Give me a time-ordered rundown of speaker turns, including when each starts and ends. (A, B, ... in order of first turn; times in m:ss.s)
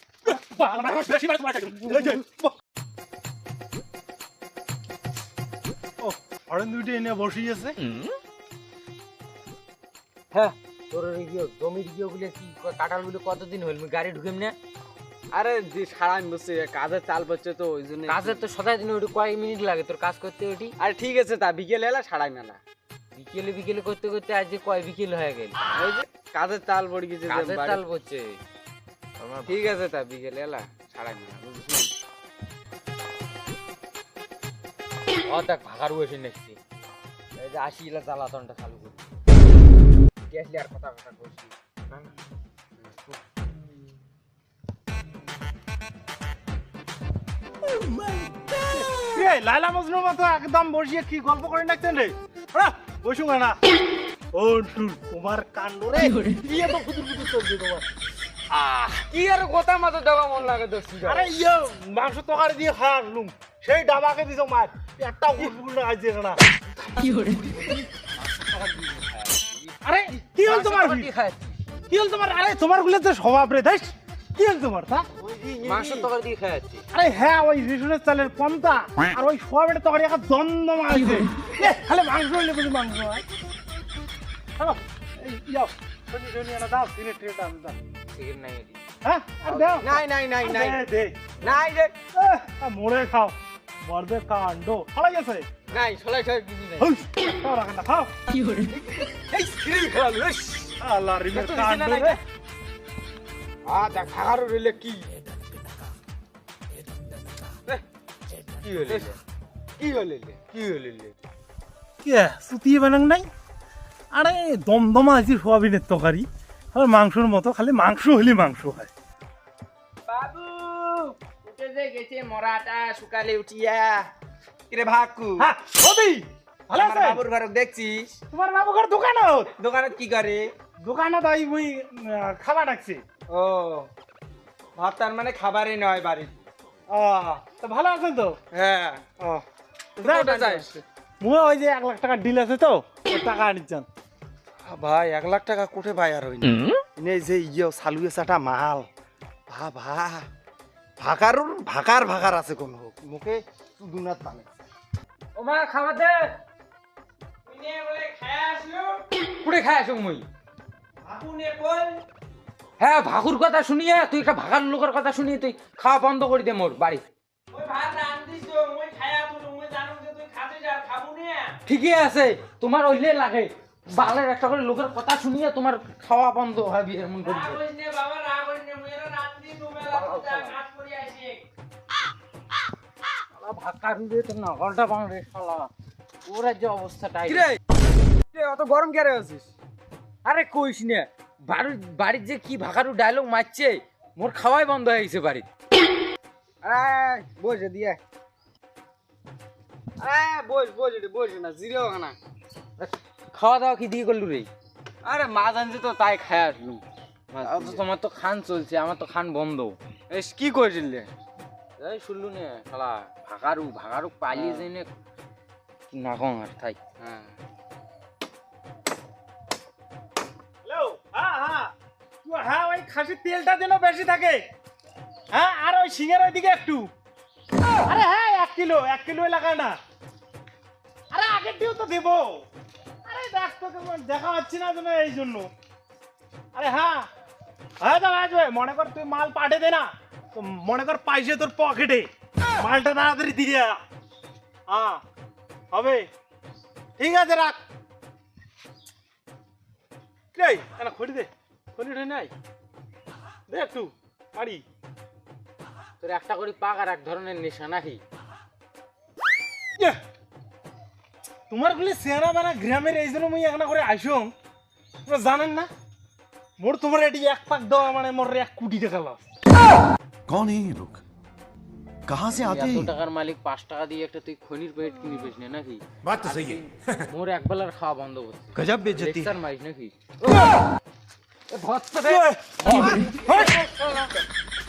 0:00.3-0:02.5 A
0:06.0-0:07.8 A
0:10.3-0:14.6 B
0:15.3-0:18.4 C
0:18.1-0:20.8 B
0:20.8-0:22.6 C
0:23.1-0:25.6 B
0:25.7-0:27.8 C
0:27.3-0:28.4 B
0:29.2-0:29.7 B
0:29.5-0:31.9 C
0:35.2-0:36.6 B
0:37.4-0:39.0 B
0:40.3-0:41.5 C
0:47.7-0:48.2 A
0:48.7-0:53.6 A
0:54.3-0:57.8 A
0:58.6-1:01.3 C
1:01.0-1:06.4 A
1:08.2-1:09.3 B
1:09.8-1:11.1 A
1:10.4-1:11.6 B
1:11.9-1:15.1 A
1:15.2-1:16.1 C
1:15.6-1:16.8 B
1:16.9-1:23.2 A
1:24.6-1:27.8 A
1:28.1-1:28.8 B
1:29.0-1:31.2 A
1:29.8-1:30.8 C
1:31.4-1:31.9 C
1:32.1-1:35.5 A
1:35.7-1:36.9 C
1:36.8-1:38.1 A
1:39.0-1:40.8 C
1:40.8-1:42.2 A
1:41.5-1:42.2 C
1:43.7-1:45.2 C
1:48.6-1:49.2 C
1:48.7-1:49.1 B
1:49.8-1:51.1 C
1:52.0-1:53.3 A
1:54.1-1:58.9 A
2:00.1-2:04.1 C
2:04.7-2:05.5 C
2:05.4-2:07.3 A
2:06.7-2:08.2 C
2:08.3-2:09.5 A
2:09.6-2:10.5 C
2:10.8-2:13.0 A
2:13.3-2:13.9 C
2:14.8-2:16.4 C
2:16.9-2:18.4 A
2:18.5-2:19.0 C
2:19.2-2:19.4 A
2:20.0-2:20.7 C
2:20.0-2:23.9 A
2:24.7-2:28.8 C
2:29.5-2:30.2 C
2:31.0-2:34.4 C
2:35.4-2:36.4 B
2:37.5-2:39.0 C
2:39.4-2:40.3 B
2:41.0-2:42.0 C
2:42.8-2:47.0 B
2:47.5-2:51.6 C
2:51.7-2:57.6 B
2:57.2-3:01.4 C
2:59.9-3:00.6 B
3:03.4-3:05.7 B
3:06.2-3:07.5 B
3:07.3-3:07.6 C
3:08.3-3:09.5 C
3:10.2-3:15.5 B
3:16.6-3:18.0 C
3:20.0-3:22.2 C
3:22.8-3:24.5 B
3:25.0-3:26.8 C
3:27.4-3:27.8 C
3:27.4-3:29.8 B
3:30.1-3:31.1 C
3:31.8-3:34.9 B
3:34.3-3:34.7 C
3:35.9-3:36.8 B
3:37.0-3:37.3 C
3:40.6-3:41.7 A
3:42.2-3:44.5 A
3:45.3-3:46.9 A
3:47.9-3:49.8 A
3:51.1-3:52.4 A
3:53.1-3:55.5 A
3:56.5-3:57.1 A
3:57.8-4:03.8 A
4:04.7-4:05.0 A
4:05.7-4:06.1 A
4:07.0-4:07.6 A
4:10.4-4:12.3 A
4:13.5-4:14.6 A
4:16.0-4:18.0 B
4:21.5-4:24.3 A
4:25.1-4:25.7 A
4:26.6-4:29.2 A
4:30.3-4:31.0 D
4:32.1-4:32.9 D
4:32.3-4:40.4 B
4:36.0-4:36.6 D
4:38.6-4:39.3 D
4:41.5-4:44.1 B
4:42.0-4:43.6 A